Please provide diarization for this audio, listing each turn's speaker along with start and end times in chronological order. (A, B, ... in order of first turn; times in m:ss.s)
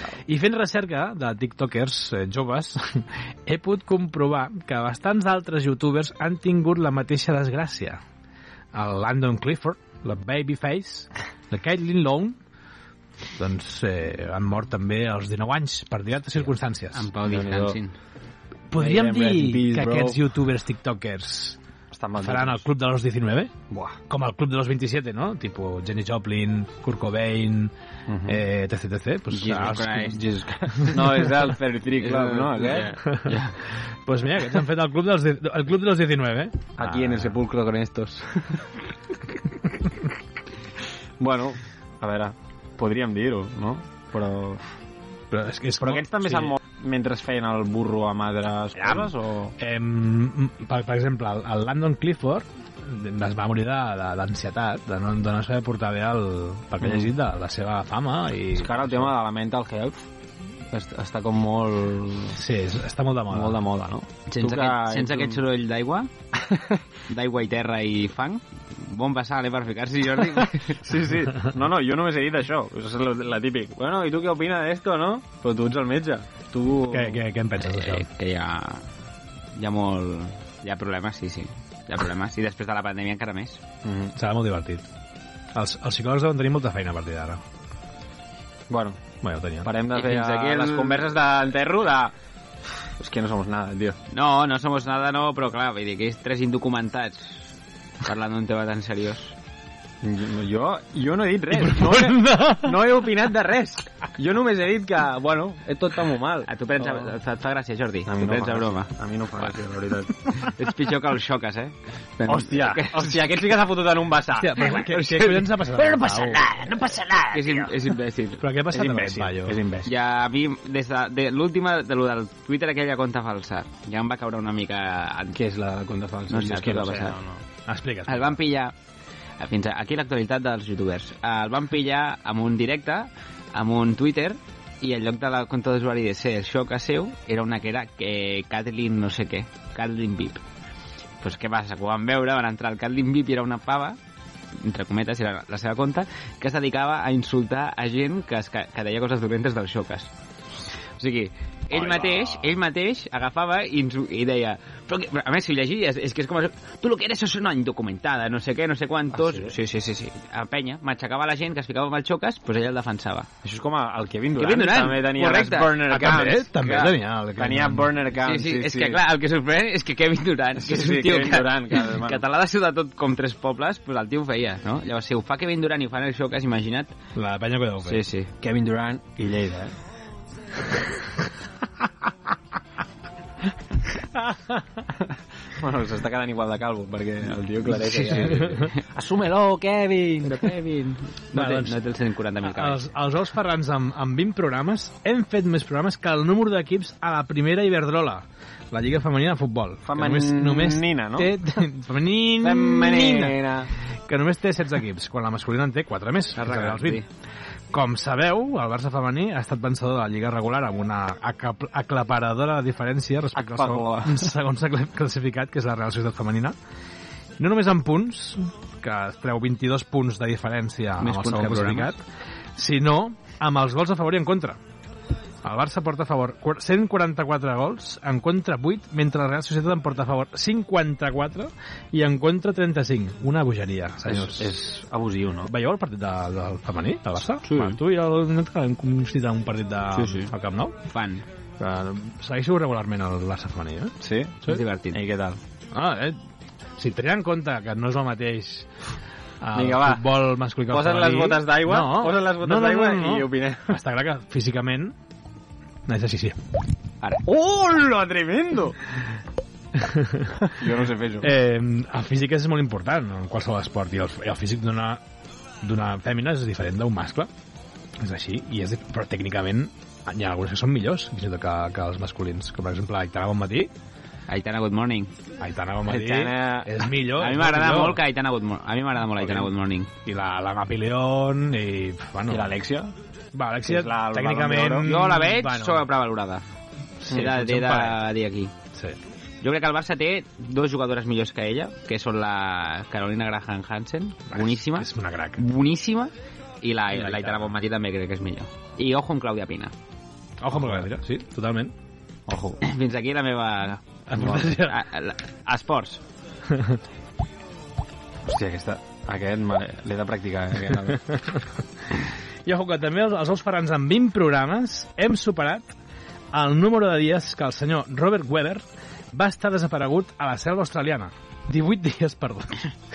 0:00.2-0:08.0 A
0:08.7-0:12.4 A
0:13.4-0:17.1 A
0:16.9-0:17.9 B
0:17.2-0:17.8 C
0:18.7-0:21.6 A
0:18.7-0:20.2 C
0:21.9-0:22.6 C
0:22.2-0:23.5 A
0:23.7-0:24.0 C
0:24.1-0:27.7 A
0:28.1-0:28.4 C
0:28.2-0:30.2 A
0:29.3-0:30.2 B
0:30.2-0:33.0 C
0:30.8-0:31.3 A
0:32.0-0:33.5 B
0:34.0-0:37.4 A
0:36.8-0:38.6 C
0:41.2-0:44.6 C
0:45.3-0:46.6 A
0:45.8-0:49.5 C
0:48.7-0:59.1 A
0:56.8-0:57.1 C
0:58.6-1:00.0 C
1:00.7-1:02.4 C
1:02.3-1:03.6 A
1:03.3-1:05.4 C
1:04.3-1:06.1 B
1:06.5-1:06.8 C
1:07.1-1:10.8 B
1:10.8-1:17.2 C
1:16.9-1:18.1 A
1:17.6-1:18.8 B
1:19.5-1:23.6 B
1:23.8-1:24.1 C
1:24.2-1:24.8 A
1:25.5-1:27.4 A
1:28.7-1:32.1 C
1:29.2-1:29.7 A
1:29.9-1:31.1 B
1:33.0-1:34.0 C
1:34.1-1:37.5 B
1:38.0-1:39.3 B
1:40.0-1:47.1 C
1:41.5-1:42.8 A
1:46.4-1:48.9 B
1:48.0-1:50.2 C
1:50.3-1:53.3 B
1:52.3-1:57.6 C
1:54.4-1:56.8 A
1:55.0-1:55.4 B
1:57.3-1:58.4 B
1:58.4-1:59.6 A
1:58.7-1:59.9 C
1:59.8-2:05.4 B
2:05.3-2:07.4 C
2:06.3-2:07.2 B
2:07.7-2:08.3 A
2:08.0-2:08.7 B
2:09.4-2:20.4 B
2:21.2-2:24.0 B
2:24.6-2:30.1 B
2:31.0-2:43.3 B
2:31.7-2:32.5 C
2:39.2-2:39.5 C
2:43.4-2:49.0 C
2:44.4-2:46.1 B
2:45.8-2:47.9 A
2:48.2-2:56.9 B
2:50.6-2:52.2 C
2:57.1-2:58.0 A
2:57.8-2:58.3 B
2:58.4-2:59.7 C
3:05.6-3:10.5 C
3:10.2-3:12.8 B
3:11.3-3:11.8 A
3:12.4-3:23.4 A
3:19.8-3:21.6 C
3:22.4-3:23.7 C
3:24.1-3:27.0 A
3:26.4-3:27.0 B
3:27.7-3:36.6 A
3:33.4-3:34.3 C
3:37.4-3:42.0 A
3:41.0-3:41.9 B
3:42.6-3:44.6 A
3:45.4-3:54.5 A
3:54.1-3:55.5 C
3:55.4-4:00.8 A
3:57.4-3:57.8 B
3:59.9-4:00.3 B
4:00.8-4:01.2 B
4:01.6-4:01.9 C
4:01.6-4:04.6 A
4:04.0-4:05.4 C
4:04.5-4:05.0 B
4:05.7-4:06.2 A
4:06.8-4:08.7 A
4:09.4-4:14.9 A
4:09.5-4:10.0 C
4:10.7-4:13.8 C
4:15.9-4:16.4 A
4:17.2-4:18.8 C
4:19.7-4:20.4 A
4:20.5-4:21.3 C
4:21.2-4:25.0 A
4:25.6-4:27.3 A
4:28.0-4:33.7 A
4:34.3-4:35.1 B
4:35.4-4:38.0 A
4:35.8-4:36.7 C
4:37.2-4:39.9 B
4:40.0-4:42.5 A
4:42.3-4:42.9 C
4:43.3-4:45.9 A
4:43.6-4:44.9 C
4:44.8-4:46.4 B
4:47.0-4:48.0 A
4:47.1-4:48.5 B
4:49.4-4:59.7 B
4:54.3-4:55.4 A
4:56.9-4:57.5 A
5:00.4-5:01.7 A
5:02.3-5:02.6 C
5:02.6-5:03.8 B
5:04.1-5:04.8 A
5:04.2-5:04.6 C
5:04.4-5:06.0 B
5:06.5-5:06.8 A
5:08.3-5:11.2 C
5:12.4-5:15.6 A
5:16.3-5:22.7 A